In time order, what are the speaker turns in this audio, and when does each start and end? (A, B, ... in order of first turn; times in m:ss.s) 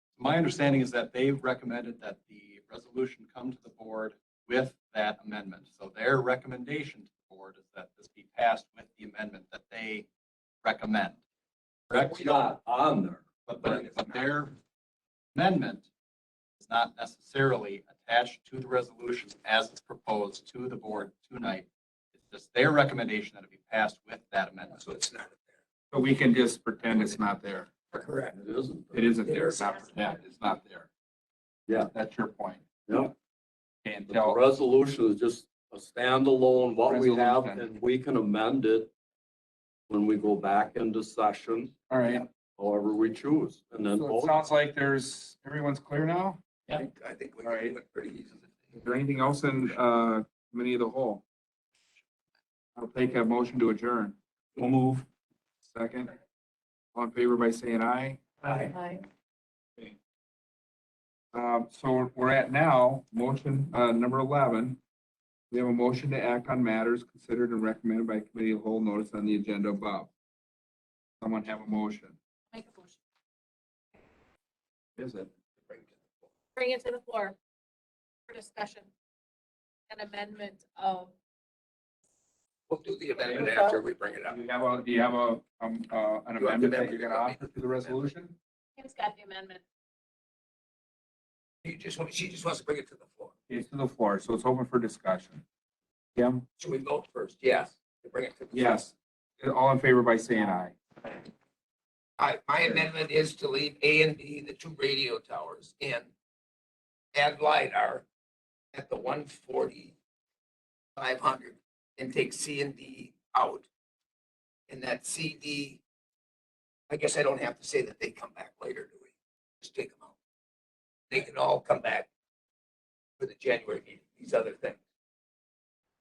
0:00.2-0:10.1 A
0:10.6-0:11.2 A
0:11.9-0:12.4 A
0:11.9-0:13.2 B
0:13.5-0:14.6 A
0:13.6-0:14.2 C
0:15.3-0:15.9 A
0:16.6-0:21.7 A
0:22.2-0:24.8 A
0:24.8-0:25.5 C
0:25.9-0:27.7 D
0:27.9-0:28.4 C
0:28.3-0:29.2 B
0:28.9-0:30.9 D
0:29.2-0:29.8 C
0:31.7-0:31.9 B
0:31.8-0:33.1 D
0:32.9-0:33.1 B
0:33.8-0:34.4 D
0:34.1-0:38.9 B
0:36.8-0:37.7 D
0:39.9-0:41.8 B
0:41.9-0:42.3 D
0:42.6-0:44.4 B
0:43.9-0:46.4 D
0:46.7-0:48.6 C
0:47.4-0:47.8 D
0:48.8-0:51.2 D
0:52.8-0:55.1 D
0:55.7-0:56.1 D
0:56.9-0:58.7 D
1:01.3-1:04.8 D
1:05.5-1:10.1 D
1:11.2-1:12.2 D
1:12.5-1:13.0 E
1:15.0-1:15.3 D
1:15.7-1:16.2 C
1:16.6-1:17.4 E
1:18.3-1:18.9 E
1:19.9-1:21.1 E
1:22.7-1:24.4 C
1:24.3-1:28.4 D
1:26.4-1:28.0 C
1:28.8-1:29.6 E
1:31.6-1:33.3 C
1:33.5-1:35.4 D
1:36.2-1:36.4 D
1:36.6-1:38.8 C
1:38.5-1:41.1 D
1:42.2-1:46.1 C
1:47.2-1:48.0 C
1:48.7-1:50.0 C
1:51.0-1:53.7 C
1:54.7-1:55.8 C
1:56.9-2:00.1 C
2:01.1-2:02.1 C
2:03.2-2:04.8 C